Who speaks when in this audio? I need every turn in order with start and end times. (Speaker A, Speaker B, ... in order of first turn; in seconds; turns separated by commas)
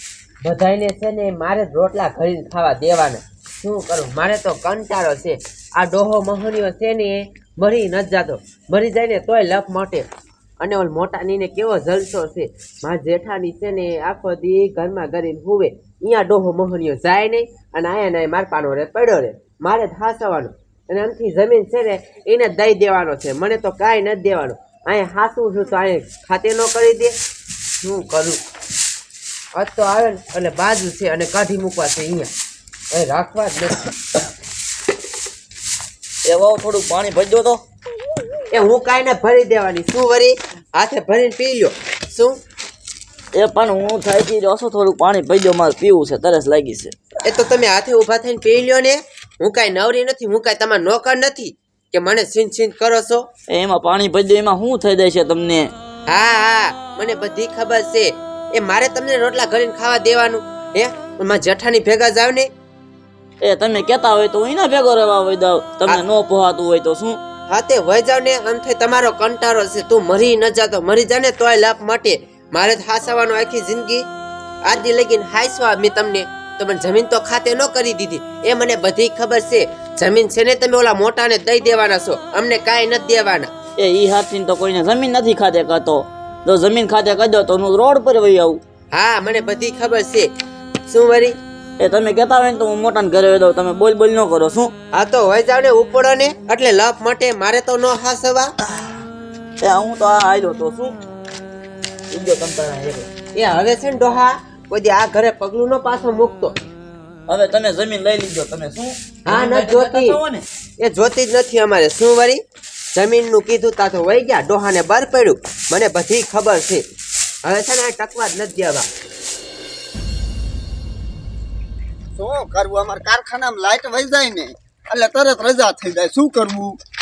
Speaker A: 0.4-10.1, Speaker A: 10.6-27.2, Speaker A: 27.8-28.4, Speaker A: 29.5-32.3, Speaker A: 32.9-33.9, Speaker B: 36.3-37.6, Speaker A: 38.5-42.4, Speaker B: 43.4-47.0, Speaker A: 47.2-53.3, Speaker B: 53.5-55.7, Speaker A: 56.1-62.5, Speaker B: 63.4-67.2, Speaker A: 67.5-74.0, Speaker A: 74.7-83.5, Speaker B: 83.8-88.6, Speaker A: 88.9-90.3, Speaker A: 90.9-91.4, Speaker B: 91.8-94.7, Speaker A: 94.9-98.5, Speaker B: 99.6-101.0, Speaker B: 102.1-103.1, Speaker A: 103.3-106.6, Speaker B: 107.3-110.5, Speaker A: 109.3-110.2, Speaker A: 110.8-112.4, Speaker A: 112.9-116.8, Speaker A: 117.4-118.9, Speaker C: 122.2-126.8